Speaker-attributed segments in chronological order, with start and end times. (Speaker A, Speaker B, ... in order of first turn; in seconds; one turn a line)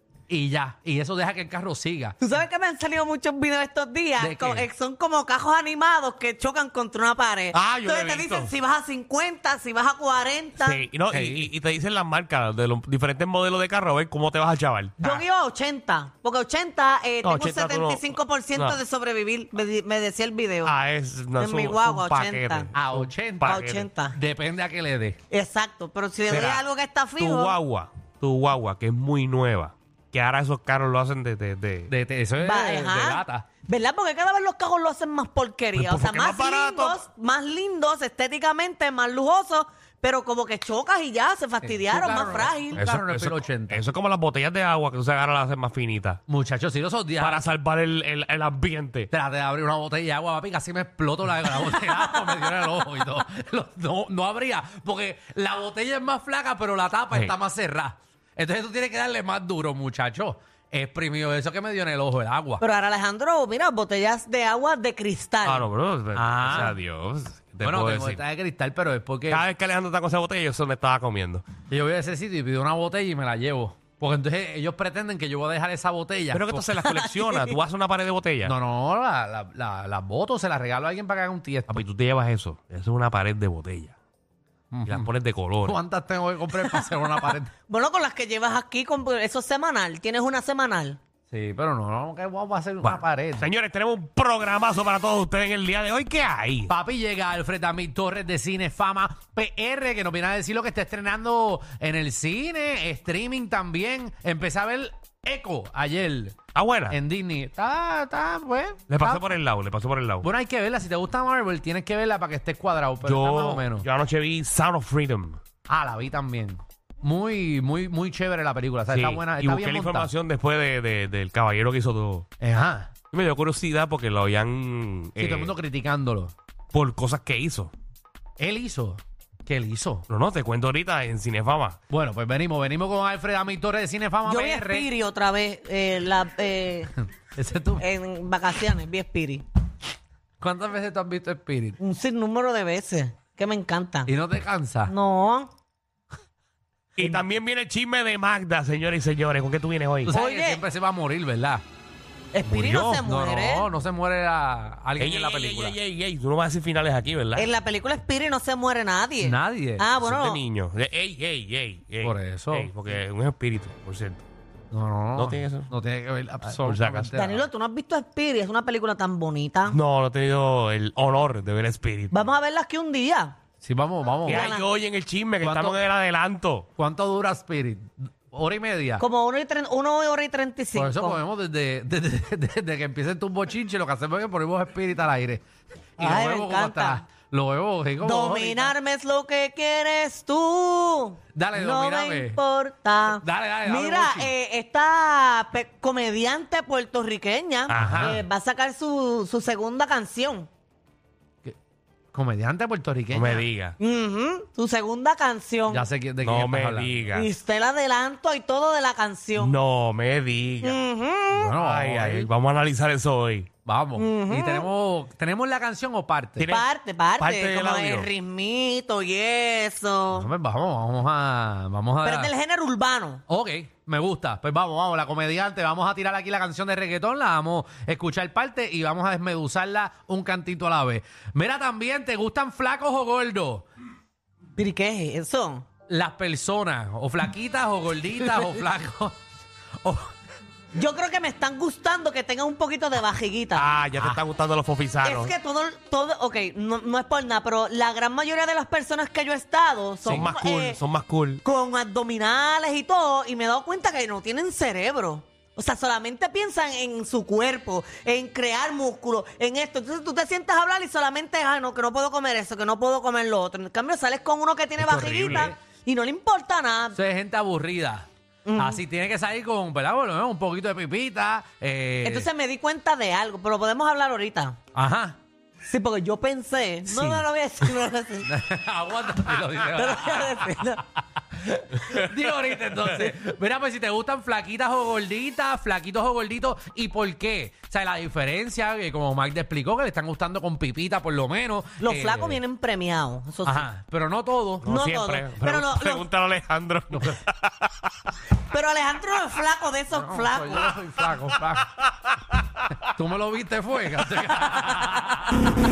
Speaker A: 0.3-2.2
Speaker B: 2.2-10.8
Speaker A: 4.2-4.7
Speaker C: 7.5-8.5
Speaker C: 10.6-15.2
Speaker A: 11.1-11.5
Speaker B: 15.0-20.8
Speaker C: 17.2-18.8
Speaker C: 20.6-23.9
Speaker B: 21.4-22.7
Speaker A: 22.7-23.6
Speaker B: 23.4-24.2
Speaker A: 24.1-25.2
Speaker B: 25.3-27.6
Speaker C: 26.3-26.6
Speaker C: 27.2-31.9
Speaker A: 31.9-33.5
Speaker B: 32.4-42.8
Speaker C: 35.8-37.0
Speaker A: 41.6-43.8
Speaker C: 42.7-46.2
Speaker A: 46.3-47.4
Speaker C: 47.2-49.1
Speaker A: 49.1-62.6
Speaker B: 62.6-65.7
Speaker C: 65.5-68.2
Speaker A: 66.2-66.8
Speaker A: 67.6-69.5
Speaker C: 69.3-71.4
Speaker A: 71.7-76.7
Speaker C: 76.3-78.5
Speaker B: 76.9-77.5
Speaker A: 78.4-81.7
Speaker C: 81.7-84.0
Speaker A: 84.7-85.1
Speaker C: 84.8-85.8
Speaker A: 85.6-87.5
Speaker B: 86.6-91.0
Speaker A: 91.3-93.5
Speaker C: 92.8-96.7
Speaker A: 96.7-106.4
Speaker C: 106.5-107.0
Speaker A: 106.9-109.2
Speaker C: 108.9-110.3
Speaker A: 110.2-113.9
Speaker C: 113.0-115.4
Speaker A: 115.7-120.1
Speaker C: 118.9-122.3
Speaker A: 122.4-122.9
Speaker C: 123.1-125.5
Speaker A: 125.2-126.3
Speaker C: 126.7-127.7
Speaker A: 128.4-130.1
Speaker C: 130.1-131.8
Speaker A: 131.9-134.9
Speaker B: 134.2-136.9
Speaker A: 137.3-137.9
Speaker B: 137.8-139.4
Speaker A: 140.4-141.8
Speaker B: 141.8-144.1
Speaker A: 144.1-144.9
Speaker B: 144.9-145.5
Speaker C: 147.0-150.1
Speaker B: 147.0-147.2
Speaker A: 150.1-151.6
Speaker B: 150.1-150.6
Speaker B: 152.3-153.7
Speaker C: 152.5-153.0
Speaker A: 153.0-155.8
Speaker C: 155.0-157.5
Speaker B: 157.3-160.4
Speaker A: 159.2-159.9
Speaker C: 160.0-164.2
Speaker A: 162.0-162.7
Speaker A: 164.7-167.5
Speaker C: 165.2-165.7
Speaker C: 166.4-167.2
Speaker B: 167.2-169.8
Speaker C: 169.7-172.3
Speaker B: 172.1-173.4
Speaker A: 173.6-174.5
Speaker C: 174.3-176.7
Speaker B: 174.3-174.7
Speaker A: 175.4-175.8
Speaker A: 176.8-179.1
Speaker B: 179.0-181.2
Speaker A: 180.8-185.4
Speaker A: 186.0-188.7
Speaker B: 186.0-187.0
Speaker B: 188.0-200.5
Speaker A: 191.3-192.4
Speaker A: 193.2-194.3
Speaker C: 197.7-198.2
Speaker A: 197.7-198.2
Speaker A: 202.1-203.5
Speaker C: 203.1-203.8
Speaker B: 203.8-205.9
Speaker A: 205.7-207.0
Speaker C: 206.2-207.3
Speaker B: 207.1-209.6
Speaker C: 209.4-210.8
Speaker B: 210.6-211.5
Speaker A: 211.3-212.3
Speaker C: 211.6-213.5
Speaker A: 213.7-216.5
Speaker B: 214.0-214.7
Speaker C: 216.4-216.7
Speaker B: 216.5-220.3
Speaker C: 217.2-218.1
Speaker A: 220.1-222.3
Speaker B: 222.0-223.2
Speaker A: 223.3-233.7
Speaker B: 234.6-235.7
Speaker A: 235.9-239.2
Speaker A: 239.8-240.1
Speaker B: 240.7-243.7
Speaker C: 243.6-245.3
Speaker B: 245.0-250.8
Speaker C: 250.1-251.4
Speaker B: 251.4-267.0
Speaker A: 264.8-265.6
Speaker C: 265.0-265.5
Speaker A: 266.9-272.3
Speaker B: 268.5-268.8
Speaker B: 272.0-274.6
Speaker A: 274.7-275.2
Speaker B: 275.6-278.3
Speaker A: 276.9-277.2
Speaker A: 278.2-280.8
Speaker B: 279.7-280.8
Speaker A: 281.5-292.4
Speaker B: 291.8-293.7
Speaker A: 293.4-294.7
Speaker C: 294.6-297.9
Speaker B: 294.7-296.1
Speaker A: 296.9-297.2
Speaker B: 298.5-300.8
Speaker A: 299.9-301.7
Speaker C: 301.8-302.9
Speaker A: 302.9-305.4
Speaker C: 304.0-304.9